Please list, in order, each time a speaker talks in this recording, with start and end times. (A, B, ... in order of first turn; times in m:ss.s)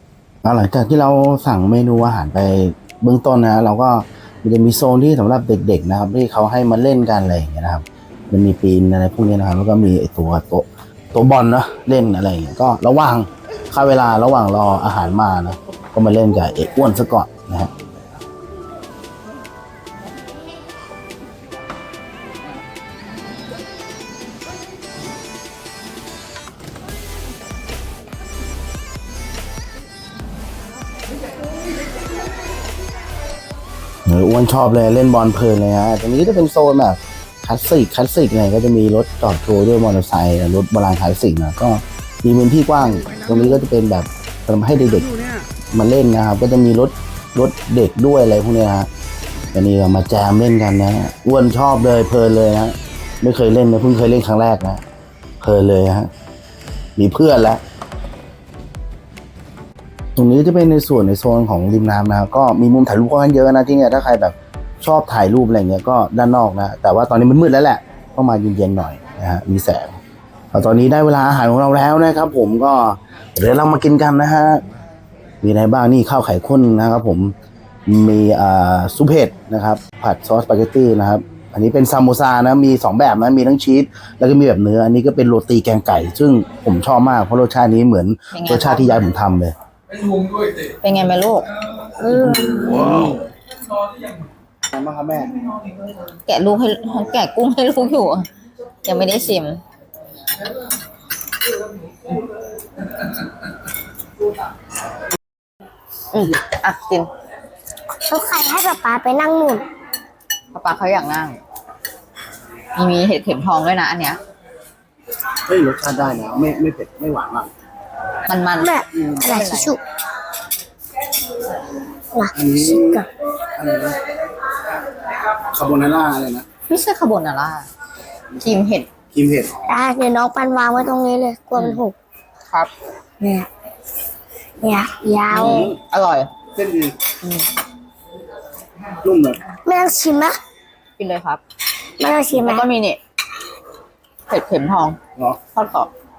0:00.4-0:17.7 A
0:34.0-0:48.9 A
0:49.5-0:54.8 A
0:55.4-0:56.1 A
0:57.0-0:57.6 A
1:00.2-1:10.0 A
1:10.5-1:14.6 A
1:15.4-1:17.3 A
1:17.8-1:29.5 A
1:28.3-1:29.0 B
1:30.8-1:31.5 B
1:32.0-1:32.9 C
1:32.1-1:33.3 A
1:34.7-1:35.4 A
1:36.2-1:38.3 B
1:38.8-1:39.6 B
1:46.1-1:47.1 B
1:48.0-1:49.6 C
1:50.5-1:51.4 B
1:52.7-1:54.2 B
1:55.4-1:57.5 A
1:58.3-1:59.8 B
1:58.6-1:59.8 C
2:02.1-2:03.1 C
2:02.4-2:03.0 A
2:03.6-2:04.0 A
2:05.3-2:06.4 A
2:06.7-2:07.7 B
2:08.4-2:08.9 B
2:09.1-2:09.6 A
2:09.7-2:11.9 C
2:11.5-2:11.8 B
2:13.2-2:13.5 C
2:14.6-2:15.7 C
2:15.3-2:16.3 B
2:15.3-2:15.8 A
2:16.5-2:17.0 A
2:17.2-2:17.5 B
2:19.0-2:19.4 A
2:19.6-2:20.4 C
2:21.0-2:21.4 B
2:22.0-2:22.6 C
2:22.3-2:23.0 B
2:24.3-2:25.9 B